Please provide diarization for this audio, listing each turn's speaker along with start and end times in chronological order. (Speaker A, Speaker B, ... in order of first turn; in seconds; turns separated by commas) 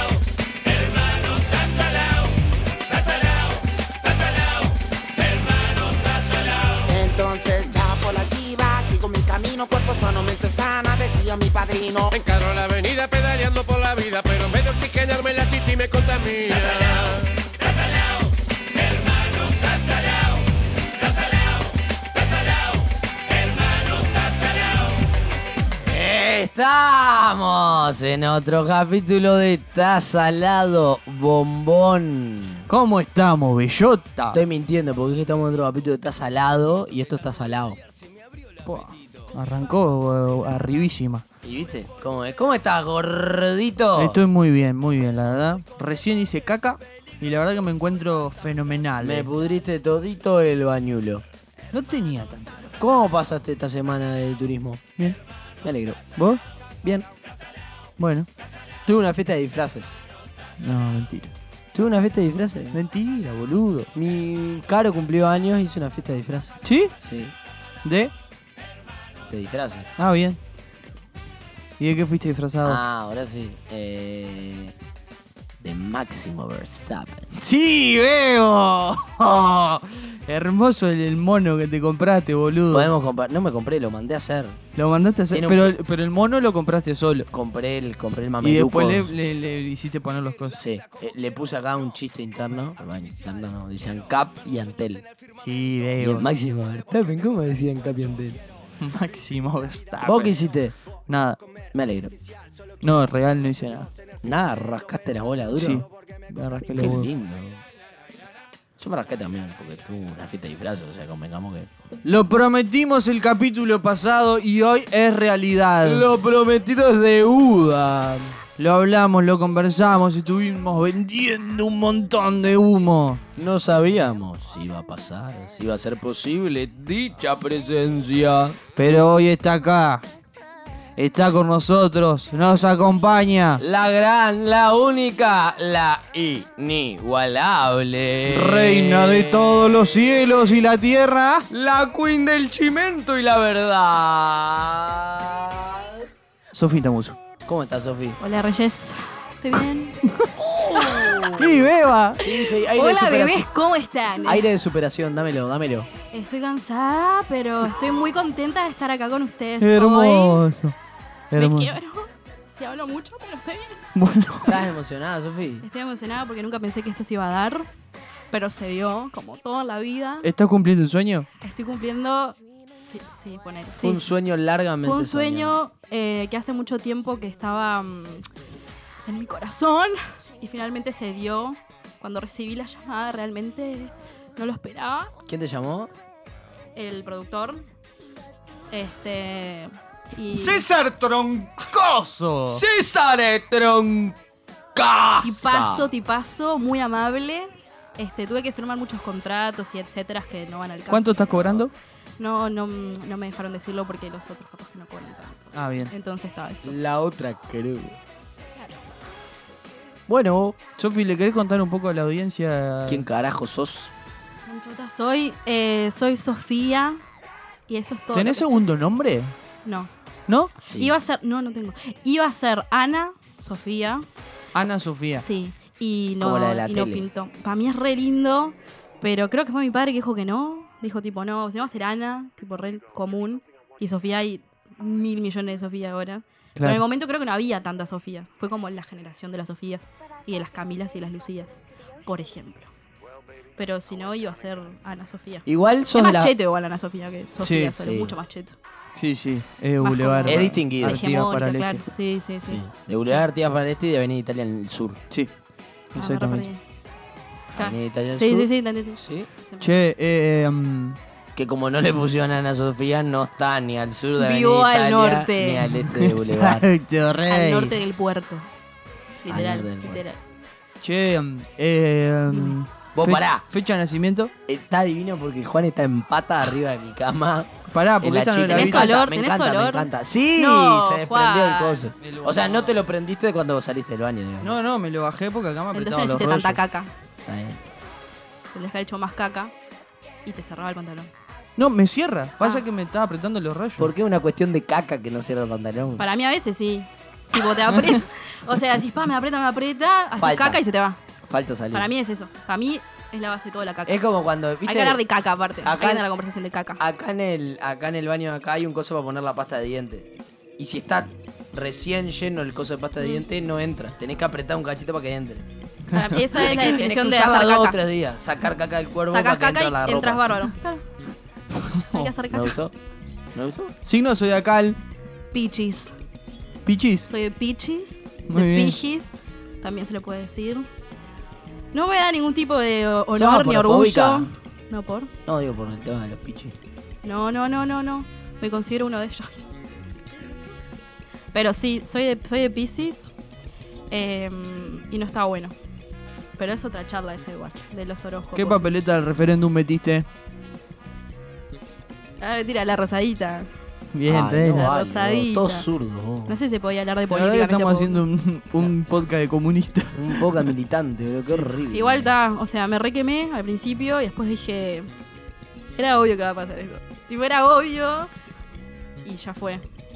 Speaker A: 1.1-2.0, Speaker B: 6.8-12.2, Speaker A: 12.2-17.2, Speaker C: 25.8-32.7, Speaker D: 32.7-34.4, Speaker C: 34.3-37.8, Speaker D: 38.6-41.2, Speaker C: 41.4-44.2, Speaker D: 43.9-49.3, Speaker C: 49.0-51.2, Speaker D: 51.7-52.7, Speaker C: 52.8-54.8, Speaker C: 55.6-56.1, Speaker D: 56.1-56.4, Speaker C: 56.8-57.1, Speaker D: 58.0-58.3, Speaker C: 58.9-60.0, Speaker D: 60.6-61.3, Speaker C: 61.7-62.8, Speaker D: 62.7-63.9, Speaker C: 63.9-67.3, Speaker D: 66.6-66.9, Speaker D: 67.8-68.1, Speaker C: 69.3-69.9, Speaker D: 70.0-70.4, Speaker D: 71.8-72.8, Speaker C: 72.6-74.7, Speaker C: 75.6-77.3, Speaker D: 77.3-82.9, Speaker C: 82.7-84.6, Speaker D: 84.7-87.3, Speaker C: 85.3-85.7, Speaker C: 87.3-89.1, Speaker D: 88.4-90.6, Speaker C: 90.5-95.0, Speaker D: 95.3-96.3, Speaker C: 96.0-98.4, Speaker D: 98.8-100.4, Speaker C: 100.0-100.7, Speaker D: 101.1-101.4, Speaker C: 101.7-102.1, Speaker D: 102.8-103.9, Speaker C: 104.2-105.8, Speaker D: 105.6-107.1, Speaker C: 106.7-107.6, Speaker C: 108.8-111.7, Speaker D: 112.0-116.1, Speaker C: 115.8-118.4, Speaker D: 118.6-123.2, Speaker C: 123.3-128.6, Speaker D: 128.8-130.0, Speaker D: 131.0-133.6, Speaker C: 133.6-140.2, Speaker D: 138.3-141.5, Speaker C: 141.5-146.1, Speaker D: 146.5-147.2, Speaker C: 147.5-148.2, Speaker E: 148.2-150.0, Speaker D: 150.0-152.2, Speaker C: 150.5-151.7, Speaker C: 152.2-153.5, Speaker E: 152.2-154.5, Speaker C: 154.2-155.9, Speaker E: 156.1-160.4, Speaker D: 159.6-160.8, Speaker D: 161.3-161.7, Speaker E: 161.3-163.8, Speaker D: 163.9-164.6, Speaker C: 164.4-165.7, Speaker E: 165.6-167.7, Speaker E: 168.3-170.3, Speaker D: 170.2-171.3, Speaker E: 171.4-174.0, Speaker C: 173.8-175.5, Speaker E: 174.8-178.2, Speaker E: 179.1-185.1, Speaker C: 185.2-185.9, Speaker E: 186.8-187.6, Speaker E: 188.7-190.7, Speaker D: 190.3-192.6, Speaker C: 192.5-194.2, Speaker C: 194.7-195.9, Speaker E: 195.2-206.8, Speaker D: 200.9-201.7, Speaker D: 205.5-205.9, Speaker C: 206.6-208.0, Speaker C: 210.1-210.6, Speaker D: 210.8-213.0, Speaker C: 212.9-213.9, Speaker E: 214.5-217.0, Speaker E: 217.7-218.6, Speaker D: 218.1-219.3, Speaker E: 219.6-219.9, Speaker C: 220.7-220.9, Speaker E: 220.7-224.0, Speaker D: 224.5-225.2, Speaker E: 225.2-242.7, Speaker C: 226.2-227.1, Speaker E: 243.6-248.6, Speaker C: 245.4-246.3, Speaker D: 247.4-247.8, Speaker C: 247.8-248.2, Speaker D: 248.9-251.8, Speaker E: 249.8-252.6, Speaker C: 250.2-251.0, Speaker C: 252.4-255.0, Speaker D: 255.9-256.4, Speaker E: 255.9-256.6, Speaker C: 257.5-259.3, Speaker E: 257.5-259.7, Speaker D: 259.6-261.0, Speaker C: 261.3-266.7, Speaker E: 264.2-265.6, Speaker D: 265.7-267.8, Speaker E: 267.3-268.5, Speaker E: 269.2-270.2, Speaker C: 269.3-270.0, Speaker D: 270.8-274.3, Speaker E: 272.3-272.6, Speaker C: 272.9-273.4, Speaker C: 274.5-284.5, Speaker D: 277.7-278.9, Speaker E: 278.5-281.9, Speaker D: 282.0-282.8, Speaker D: 284.4-286.6, Speaker E: 285.7-286.9, Speaker C: 287.2-287.6, Speaker E: 288.5-289.5, Speaker E: 290.2-291.1, Speaker D: 291.6-293.9, Speaker C: 293.8-296.0, Speaker E: 296.0-301.0, Speaker C: 300.2-300.6, Speaker C: 301.3-301.9, Speaker E: 301.7-304.0, Speaker C: 303.9-305.0, Speaker E: 304.6-306.8, Speaker C: 305.6-306.1, Speaker C: 306.8-315.5, Speaker E: 315.9-317.8, Speaker D: 315.9-316.2, Speaker C: 316.3-320.3, Speaker E: 319.1-320.8, Speaker D: 321.5-322.1, Speaker E: 321.9-322.6, Speaker C: 322.3-322.7, Speaker C: 323.3-323.7, Speaker D: 323.8-324.8, Speaker E: 325.3-325.9, Speaker D: 326.6-327.1, Speaker E: 327.1-330.7, Speaker D: 328.3-328.8, Speaker E: 331.7-335.1, Speaker C: 333.1-334.3, Speaker C: 335.2-336.5, Speaker E: 337.0-339.4, Speaker E: 341.3-343.1, Speaker E: 343.9-345.5, Speaker E: 346.4-348.7, Speaker D: 348.4-350.0, Speaker E: 352.2-353.5, Speaker D: 353.9-354.7, Speaker C: 354.1-356.4, Speaker E: 354.5-355.7, Speaker E: 356.3-358.0, Speaker D: 357.1-360.5, Speaker C: 359.9-362.1, Speaker E: 361.7-364.9, Speaker E: 365.8-368.1, Speaker E: 369.0-369.6